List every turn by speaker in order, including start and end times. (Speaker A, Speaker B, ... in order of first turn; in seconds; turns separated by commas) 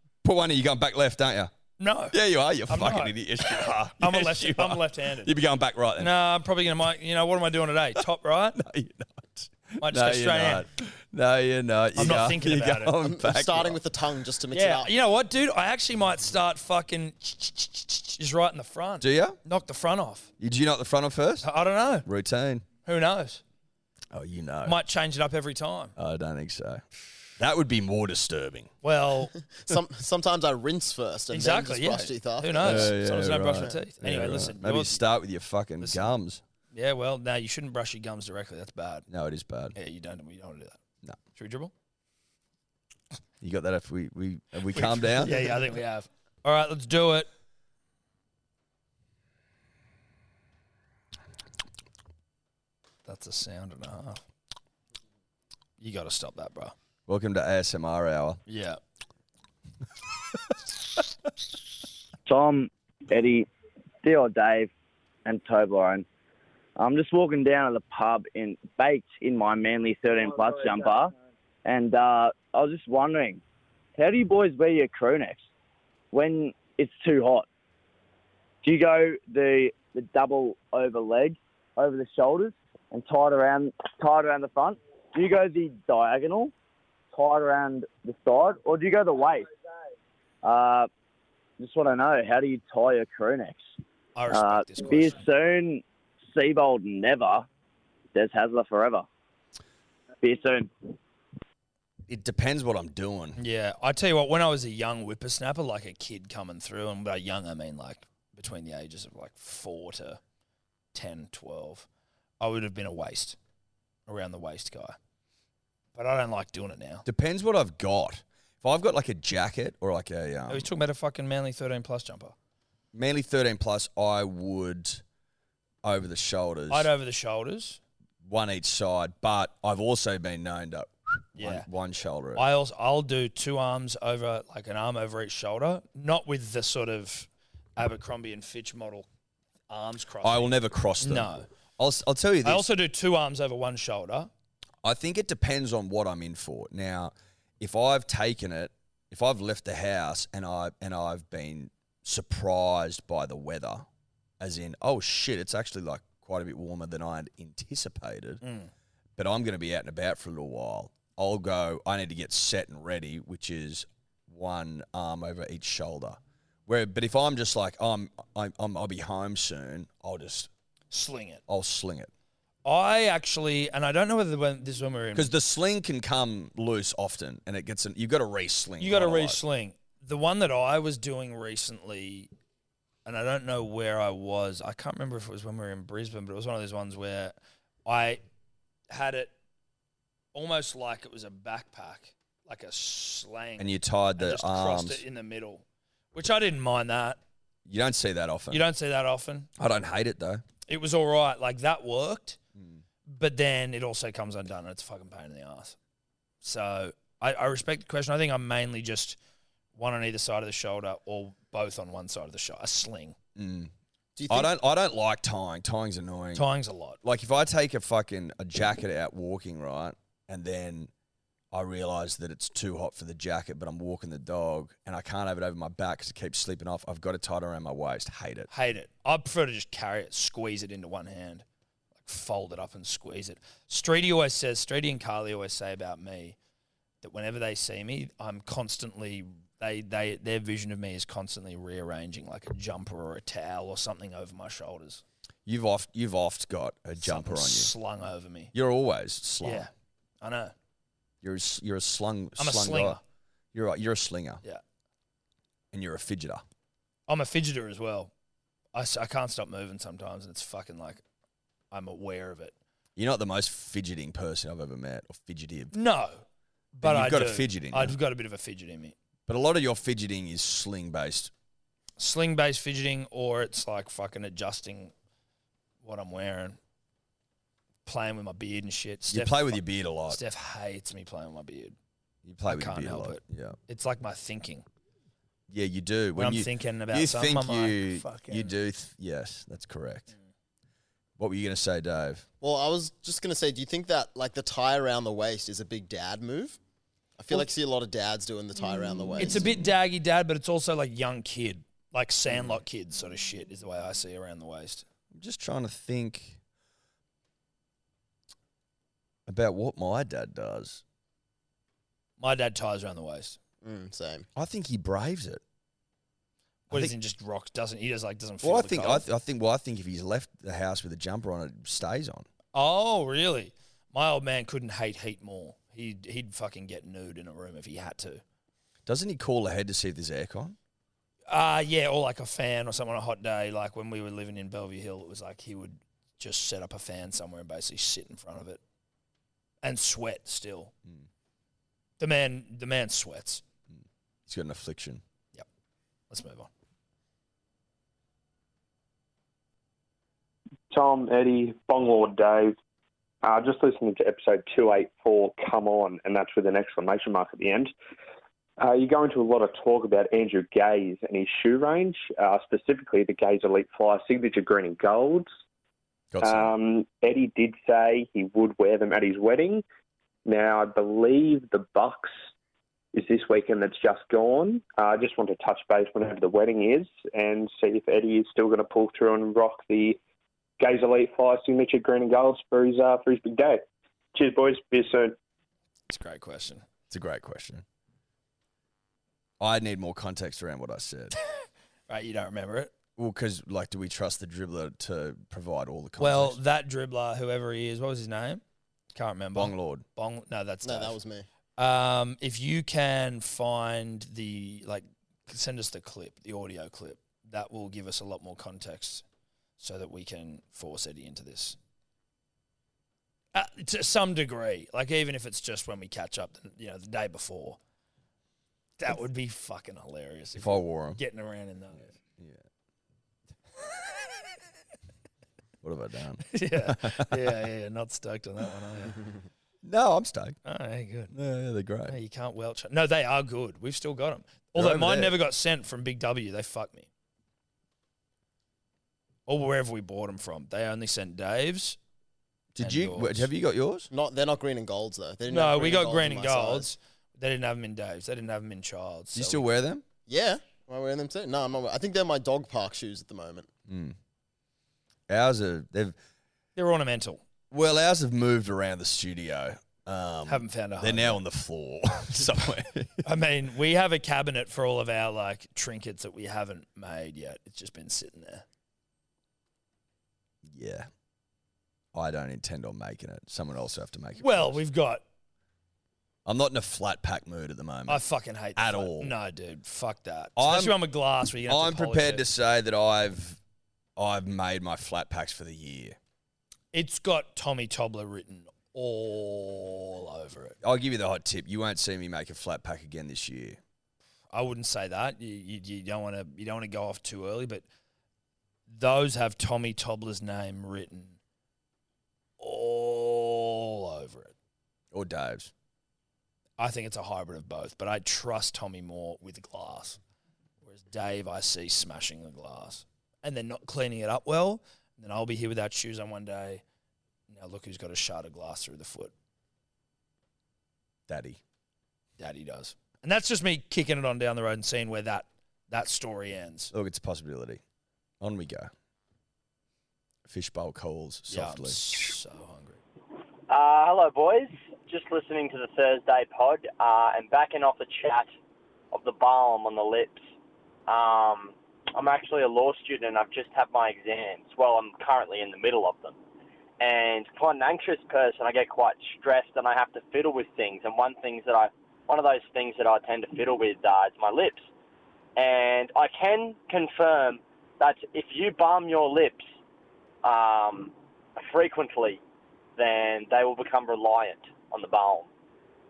Speaker A: 0.2-1.5, Speaker B: 1.8-2.2, Speaker A: 2.1-6.1, Speaker B: 2.7-5.3, Speaker B: 6.0-8.6, Speaker A: 8.6-13.8, Speaker B: 9.8-10.7, Speaker B: 12.0-12.9, Speaker C: 13.0-14.9, Speaker B: 14.5-20.3, Speaker A: 19.0-19.4, Speaker A: 20.4-21.5, Speaker B: 21.4-22.1, Speaker A: 22.0-22.7, Speaker B: 22.9-23.4, Speaker A: 24.1-24.8, Speaker B: 24.6-25.9, Speaker A: 26.0-26.8, Speaker A: 27.4-28.7, Speaker B: 28.8-29.4, Speaker C: 29.4-32.9, Speaker B: 31.3-35.0, Speaker A: 32.6-36.4, Speaker B: 35.8-36.1, Speaker B: 36.7-39.1, Speaker A: 39.1-39.8, Speaker B: 39.8-40.8, Speaker B: 41.3-41.7, Speaker A: 43.4-45.5, Speaker B: 44.7-47.3, Speaker B: 53.0-54.2, Speaker B: 55.8-56.7, Speaker A: 57.1-58.4, Speaker B: 58.5-58.8, Speaker D: 62.3-63.5, Speaker D: 64.0-64.7, Speaker D: 65.2-66.1, Speaker D: 66.8-71.1, Speaker D: 71.7-73.4, Speaker D: 74.0-75.5, Speaker D: 76.1-77.5, Speaker D: 78.6-86.5, Speaker D: 87.1-89.5, Speaker D: 90.4-90.9, Speaker D: 91.6-93.7, Speaker B: 94.2-95.2, Speaker D: 94.3-97.5, Speaker D: 98.1-99.1, Speaker D: 100.2-100.9, Speaker A: 102.1-103.4, Speaker B: 103.4-110.2, Speaker B: 110.9-111.9, Speaker B: 112.4-113.4, Speaker B: 114.1-115.0, Speaker B: 116.0-117.0, Speaker A: 117.0-120.7, Speaker B: 120.5-122.3, Speaker A: 122.9-125.0, Speaker A: 125.8-126.9, Speaker B: 126.7-127.8, Speaker A: 128.2-132.4, Speaker B: 131.4-131.7, Speaker B: 132.3-139.1, Speaker B: 139.7-141.5, Speaker A: 140.2-142.7, Speaker B: 142.4-144.3, Speaker A: 144.8-153.9, Speaker A: 154.4-158.4, Speaker B: 158.4-158.7, Speaker A: 159.2-170.5, Speaker B: 170.9-171.4, Speaker A: 171.5-172.1, Speaker B: 172.7-175.3, Speaker A: 175.2-179.4, Speaker B: 178.8-182.3, Speaker B: 183.1-188.2, Speaker B: 188.9-189.3, Speaker B: 190.3-197.2, Speaker A: 193.6-195.0, Speaker A: 197.7-198.6, Speaker B: 198.5-199.5, Speaker A: 199.6-200.4, Speaker B: 200.7-202.4, Speaker A: 202.6-202.8, Speaker B: 203.1-205.8, Speaker B: 206.4-209.2, Speaker B: 209.8-213.2, Speaker A: 213.4-213.7, Speaker C: 214.2-214.5, Speaker A: 214.3-216.5, Speaker B: 216.3-217.0, Speaker A: 217.0-220.9, Speaker A: 221.5-228.5, Speaker B: 228.5-231.4, Speaker B: 232.0-236.4, Speaker B: 237.0-245.0, Speaker A: 245.5-247.7, Speaker B: 247.0-248.5, Speaker A: 248.5-249.7, Speaker B: 249.4-250.5, Speaker A: 251.2-253.0, Speaker B: 252.4-253.0, Speaker A: 253.5-254.4, Speaker A: 255.7-256.4, Speaker B: 257.1-258.1, Speaker B: 258.7-261.0, Speaker B: 261.7-262.6, Speaker A: 263.0-265.8, Speaker B: 265.7-268.9, Speaker A: 266.8-268.0, Speaker A: 269.3-271.3, Speaker B: 272.0-274.9, Speaker B: 275.8-276.6, Speaker B: 277.9-281.8, Speaker A: 279.1-280.2, Speaker A: 282.2-283.6, Speaker B: 282.5-284.7, Speaker A: 285.5-290.1, Speaker B: 286.2-288.5, Speaker A: 291.2-292.3, Speaker C: 292.4-296.6, Speaker C: 297.2-299.5, Speaker A: 299.1-299.7, Speaker B: 299.2-304.9, Speaker A: 305.1-306.4, Speaker A: 309.3-310.8, Speaker B: 312.2-313.4, Speaker C: 313.6-314.3, Speaker A: 314.4-315.4, Speaker B: 316.7-319.1, Speaker A: 318.4-322.3, Speaker B: 322.5-328.2, Speaker A: 328.9-330.6, Speaker B: 331.3-338.6, Speaker B: 339.6-340.7, Speaker B: 342.0-343.4, Speaker A: 343.7-345.0, Speaker B: 346.1-346.5, Speaker E: 350.7-352.6, Speaker E: 353.2-357.7, Speaker E: 358.6-365.3, Speaker A: 366.1-366.5, Speaker E: 366.2-369.6, Speaker E: 370.3-372.1, Speaker E: 372.9-380.0, Speaker E: 380.6-383.6, Speaker E: 384.1-385.1, Speaker B: 385.9-386.6, Speaker A: 386.9-387.6, Speaker A: 389.4-391.1, Speaker B: 391.9-392.7, Speaker A: 393.0-396.4, Speaker B: 396.0-398.4, Speaker B: 398.9-401.0, Speaker A: 399.3-399.9, Speaker C: 400.6-401.3, Speaker B: 401.6-409.0, Speaker B: 409.6-411.6, Speaker B: 413.3-417.6, Speaker B: 418.8-421.9, Speaker A: 420.4-421.0, Speaker A: 422.2-422.4, Speaker A: 425.6-427.4, Speaker B: 426.3-429.0, Speaker A: 429.6-430.4, Speaker B: 430.4-431.1, Speaker A: 431.1-432.0, Speaker B: 431.9-436.9, Speaker A: 434.6-435.2, Speaker B: 439.3-441.8, Speaker A: 442.6-443.9, Speaker B: 442.6-443.3, Speaker C: 443.9-446.7, Speaker B: 445.3-449.4, Speaker A: 449.1-449.8, Speaker C: 450.1-453.5, Speaker A: 453.7-454.0, Speaker A: 455.1-456.0, Speaker B: 456.6-457.2, Speaker A: 457.5-463.1, Speaker B: 460.3-461.2, Speaker B: 463.0-468.4, Speaker A: 470.5-470.9, Speaker A: 471.9-474.6, Speaker B: 474.2-475.0, Speaker A: 476.2-478.0, Speaker B: 477.9-482.3, Speaker A: 478.6-479.1, Speaker A: 480.4-480.8, Speaker A: 481.5-483.4, Speaker A: 484.0-486.0, Speaker B: 486.7-490.6, Speaker A: 490.6-493.6, Speaker B: 494.3-497.6, Speaker B: 498.7-501.2, Speaker B: 502.4-504.3, Speaker A: 504.9-505.5, Speaker B: 506.6-510.0, Speaker B: 510.6-516.6, Speaker B: 517.3-519.1, Speaker A: 521.1-521.4, Speaker B: 522.2-526.7, Speaker A: 526.7-527.6, Speaker A: 528.2-528.7, Speaker A: 530.3-531.8, Speaker B: 531.3-532.8, Speaker F: 533.5-538.3, Speaker F: 538.9-540.3, Speaker F: 540.9-546.2, Speaker F: 546.8-554.7, Speaker F: 555.4-559.5, Speaker F: 560.2-562.2, Speaker F: 562.8-565.3